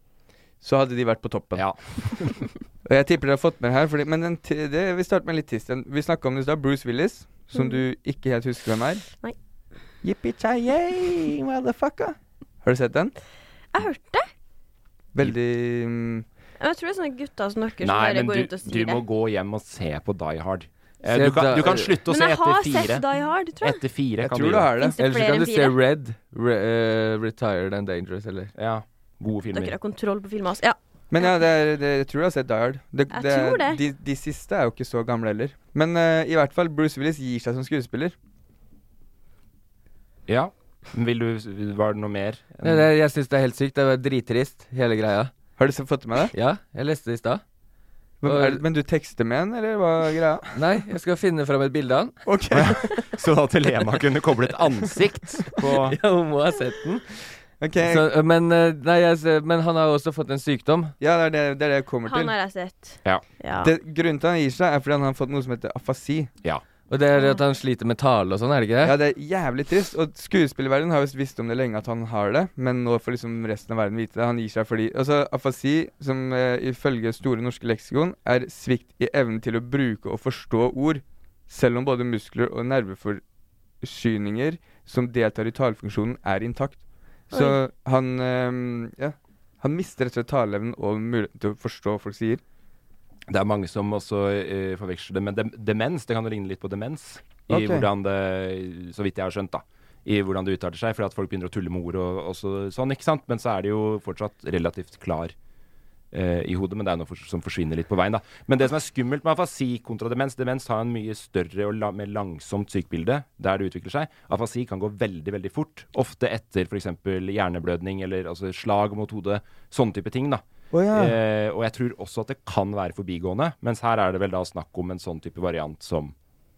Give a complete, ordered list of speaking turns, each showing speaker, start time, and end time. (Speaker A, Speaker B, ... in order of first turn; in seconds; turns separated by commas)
Speaker A: 0.6-1.7, Speaker B: 1.5-2.4, Speaker A: 2.8-9.1, Speaker C: 7.5-7.8, Speaker A: 10.0-13.1, Speaker C: 13.7-14.3, Speaker A: 15.1-16.2, Speaker C: 16.6-19.0, Speaker B: 17.8-23.0, Speaker D: 21.1-22.0, Speaker C: 22.1-23.8, Speaker B: 23.6-24.7, Speaker A: 24.2-25.0, Speaker C: 24.8-25.8, Speaker D: 25.0-28.5, Speaker B: 28.5-29.8, Speaker C: 29.5-31.3, Speaker A: 31.1-38.1, Speaker C: 33.1-33.8, Speaker B: 40.3-42.9, Speaker D: 42.6-45.3, Speaker A: 45.6-46.3, Speaker D: 46.3-47.4, Speaker A: 48.2-50.5, Speaker D: 48.2-48.6, Speaker D: 50.5-52.1, Speaker A: 52.2-53.0, Speaker B: 52.5-56.0, Speaker D: 55.8-60.9, Speaker A: 57.6-58.1, Speaker A: 61.0-62.3, Speaker C: 62.0-63.7, Speaker A: 63.6-66.3, Speaker D: 66.9-68.9, Speaker A: 68.8-83.2, Speaker A: 83.8-92.4, Speaker C: 87.3-87.6, Speaker B: 93.3-105.3, Speaker A: 97.5-97.9, Speaker B: 106.1-126.1, Speaker A: 120.7-121.2